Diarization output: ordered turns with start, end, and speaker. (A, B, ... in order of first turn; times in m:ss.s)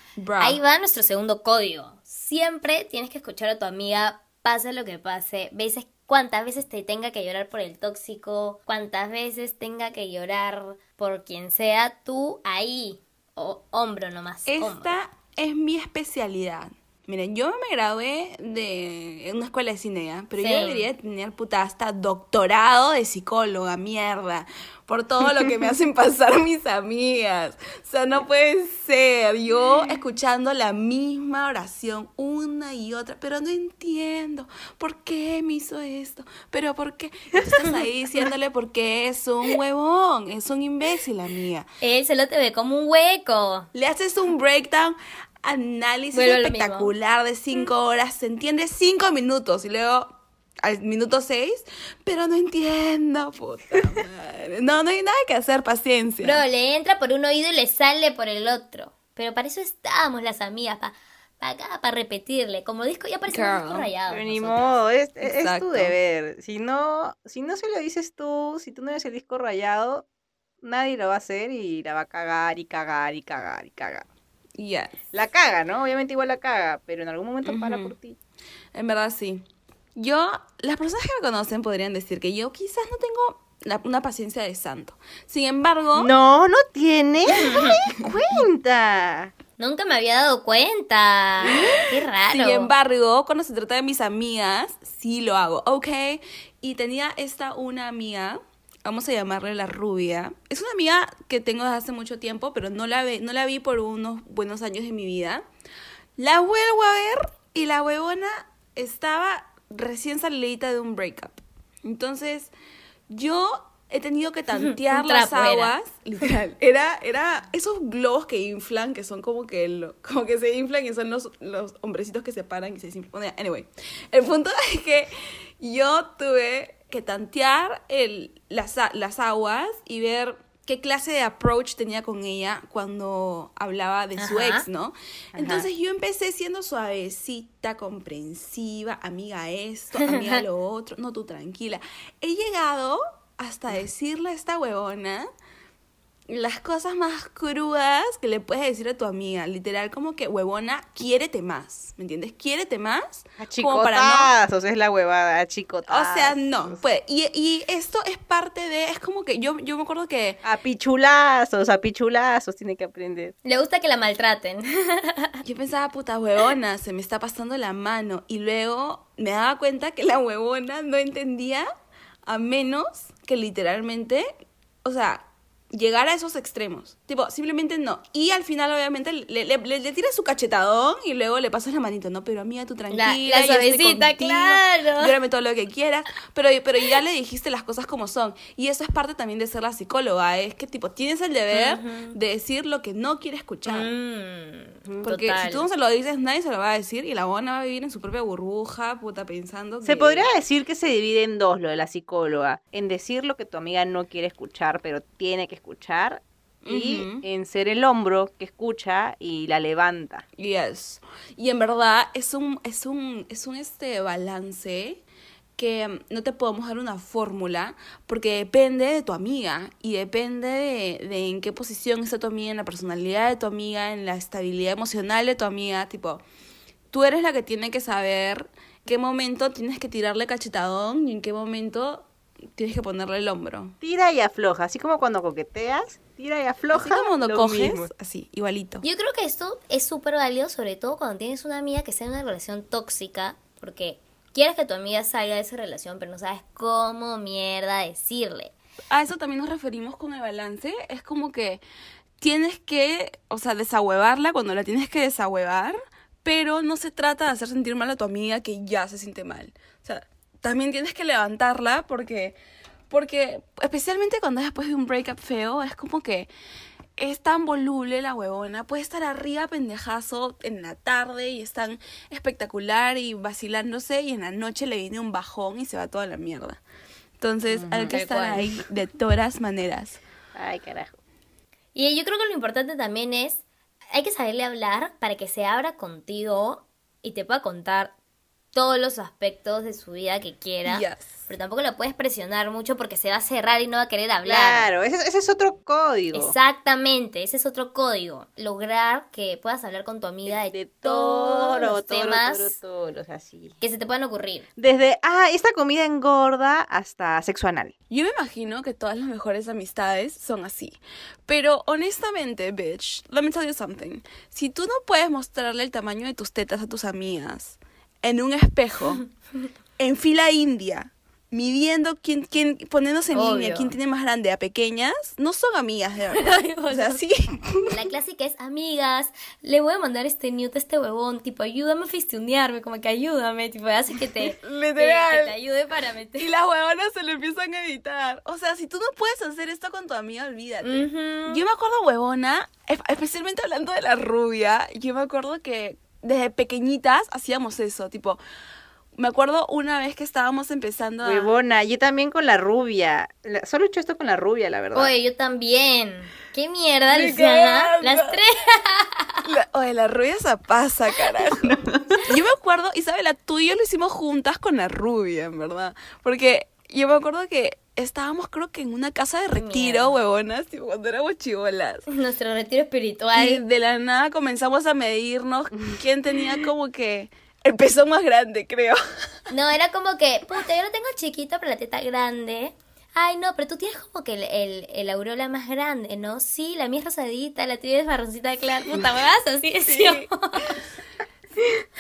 0:00.2-0:00.6 A
0:00.4-0:15.0 B
0:14.5-0:41.7 A
0:20.4-0:20.9 B
0:41.8-0:43.7 B
0:43.7-0:50.1 A
0:46.1-0:46.9 B
0:50.6-0:56.4 A
0:56.2-1:04.7 B
1:03.3-1:03.9 A
1:04.1-1:10.0 C
1:05.2-1:06.0 A
1:10.6-1:14.0 C
1:14.6-1:15.0 A
1:15.1-1:18.2 C
1:17.4-1:18.0 A
1:18.7-1:26.1 A
1:26.0-1:29.3 C
1:27.4-1:27.7 B
1:27.5-1:28.2 A
1:29.6-1:32.7 B
1:31.5-1:31.8 A
1:32.3-1:45.4 A
1:46.2-1:52.5 A
1:53.1-2:25.3 A
1:54.5-1:55.7 B
2:14.2-2:14.6 B
2:15.3-2:15.7 C
2:20.0-2:20.4 B
2:26.3-2:34.3 A
2:33.4-2:36.8 C
2:35.9-2:40.4 A
2:40.4-2:43.4 C
2:43.4-2:45.4 B
2:45.4-2:51.7 A
2:52.2-2:54.3 A
2:54.8-3:13.9 A
3:02.9-3:05.2 B
3:11.5-3:12.2 B
3:13.7-3:15.7 B
3:15.0-3:20.3 A
3:19.8-3:30.2 C
3:26.6-3:27.2 A
3:30.4-3:35.0 A
3:35.6-3:46.2 A
3:46.9-3:53.8 A
3:53.8-3:57.9 C
3:56.7-3:58.8 A
3:58.8-4:08.5 B
4:08.9-4:11.6 A
4:12.2-4:22.4 A
4:22.9-4:26.3 A
4:27.0-4:36.6 A
4:37.2-4:40.0 A
4:37.5-4:37.9 C
4:37.9-4:38.5 B
4:40.3-4:41.0 C
4:41.8-4:47.9 B
4:48.5-4:54.7 B
4:50.7-4:51.2 A
4:54.2-4:56.4 C
4:56.1-5:02.6 B
5:00.3-5:03.5 C
5:03.6-5:04.5 B
5:04.6-5:07.7 C
5:07.9-5:19.0 A
5:19.8-5:27.8 A
5:23.1-5:23.8 B
5:26.1-5:36.3 B
5:34.3-5:35.4 A
5:36.2-5:48.2 A
5:40.6-5:41.4 B
5:49.0-5:51.3 A
5:51.0-5:54.9 C
5:54.8-5:59.2 B
5:56.9-5:58.2 A
5:59.2-6:11.9 A
6:01.4-6:02.0 C
6:09.3-6:10.0 B
6:11.9-6:13.4 B
6:13.2-6:18.8 A
6:19.3-6:30.6 B
6:29.7-6:30.1 A